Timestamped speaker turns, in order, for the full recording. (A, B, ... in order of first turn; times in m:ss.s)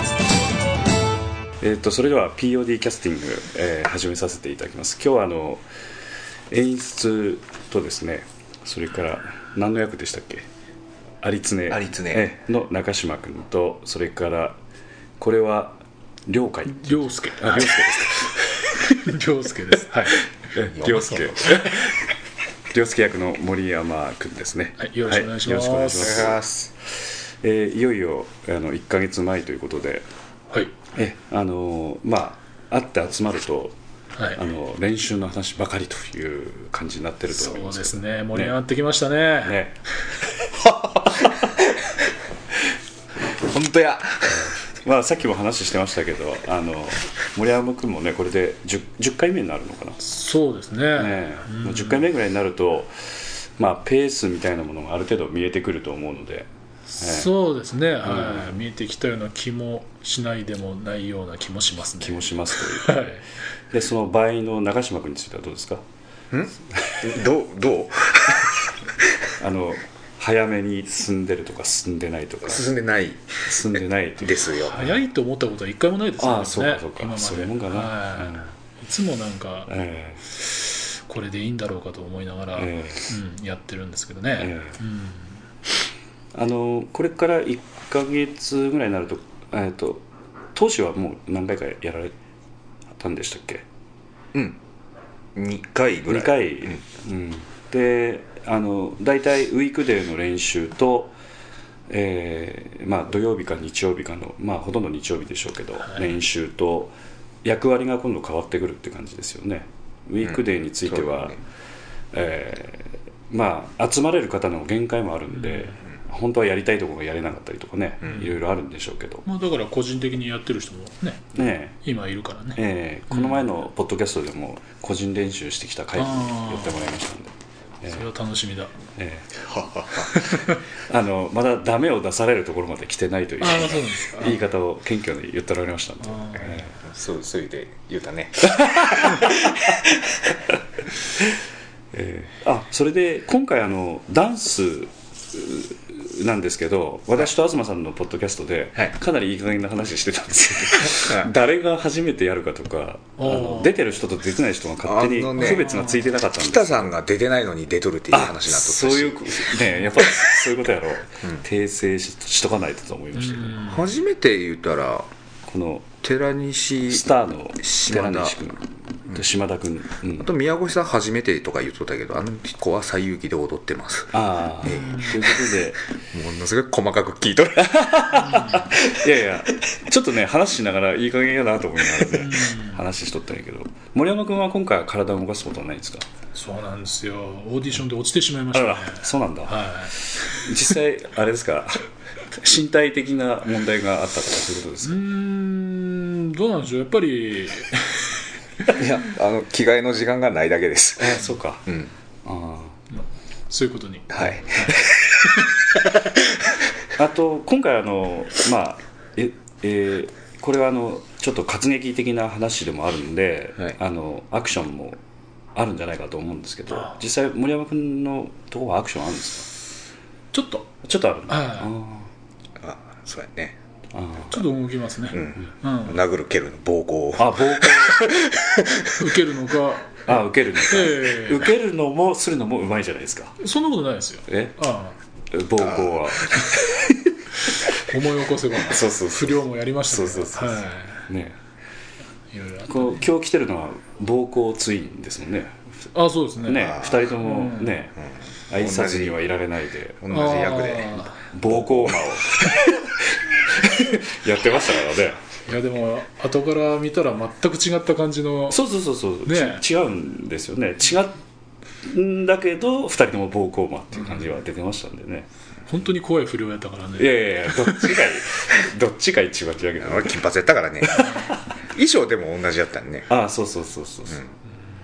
0:01.6-0:05.6 A
0:06.5-0:10.5 A
0:11.2-0:14.6 A
0:11.7-0:12.3 B
0:15.2-0:18.8 A
0:16.7-0:17.9 C
0:18.8-0:20.3 C
0:20.4-0:22.0 A
0:20.8-0:21.8 C
0:22.7-0:26.4 A
0:24.8-0:26.3 C
0:26.0-0:26.7 B
0:27.4-0:30.0 A
0:30.9-0:33.8 A
0:34.4-0:38.6 A
0:37.3-0:39.6 C
0:39.4-0:39.8 A
0:40.5-0:42.0 B
0:43.3-0:44.5 B
0:44.7-0:50.0 A
0:50.0-0:52.1 C
0:51.0-0:57.3 A
0:57.0-1:03.2 C
0:58.0-0:58.6 A
1:02.0-1:05.8 A
1:06.3-1:08.9 B
1:06.7-1:07.1 A
1:09.4-1:12.7 A
1:12.5-1:14.9 B
1:13.5-1:14.5 A
1:14.6-1:19.7 C
1:16.2-1:18.5 A
1:19.7-1:20.2 A
1:20.4-1:25.4 C
1:22.6-1:23.1 A
1:24.4-1:24.8 A
1:26.3-1:32.1 A
1:32.9-1:33.6 A
1:34.3-1:34.6 B
1:35.4-1:36.8 B
1:36.1-1:41.2 A
1:41.9-1:46.9 A
1:47.4-1:51.4 A
1:50.2-1:51.4 B
1:52.1-1:59.2 A
1:59.2-2:02.6 C
2:01.4-2:01.8 A
2:02.6-2:08.1 A
2:03.1-2:03.4 C
2:06.0-2:06.9 C
2:07.9-2:08.7 C
2:09.0-2:09.4 A
2:09.4-2:10.3 B
2:10.2-2:16.7 A
2:13.4-2:14.4 C
2:16.1-2:16.6 C
2:16.8-2:20.4 B
2:21.9-2:36.9 A
2:30.9-2:31.3 B
2:33.2-2:33.8 C
2:34.8-2:35.8 B
2:35.4-2:36.1 C
2:36.3-2:40.4 B
2:38.1-2:43.7 A
2:43.2-2:43.9 C
2:43.7-2:45.1 B
2:45.5-2:45.9 A
2:46.0-2:47.1 B
2:46.9-2:50.3 A
2:47.6-2:48.4 B
2:50.2-2:58.4 B
2:54.1-2:55.8 A
2:54.7-2:55.1 C
2:57.6-3:06.1 A
3:02.1-3:02.8 C
3:06.3-3:10.7 C
3:08.5-3:15.0 A
3:14.8-3:18.2 C
3:18.7-3:21.9 B
3:21.0-3:21.7 A
3:22.2-3:22.8 A
3:22.9-3:25.6 C
3:24.1-3:25.3 B
3:27.0-3:35.0 A
3:35.6-3:39.5 A
3:40.3-3:40.7 C
3:40.8-3:42.1 A
3:41.3-3:41.7 C
3:42.6-3:43.6 B
3:43.9-3:44.5 A
3:44.3-3:46.0 C
3:45.1-3:49.1 B
3:47.2-3:48.2 A
3:49.0-3:51.5 C
3:50.0-3:53.4 A
3:53.4-3:55.0 C
3:54.3-3:54.6 A
3:55.3-3:57.1 A
3:55.6-3:56.6 B
3:57.8-4:01.1 C
3:58.7-4:01.4 A
4:02.3-4:03.1 C
4:02.7-4:05.9 A
4:05.9-4:07.8 C
4:06.4-4:08.0 A
4:06.8-4:07.0 B
4:08.0-4:09.2 B
4:08.5-4:10.1 A
4:10.0-4:12.1 B
4:10.1-4:11.2 C
4:11.1-4:15.2 A
4:15.5-4:18.6 C
4:18.5-4:21.2 A
4:19.3-4:19.6 C
4:21.8-4:25.3 A
4:25.7-4:28.1 C
4:27.0-4:30.2 A
4:29.8-4:33.1 B
4:33.1-4:34.2 A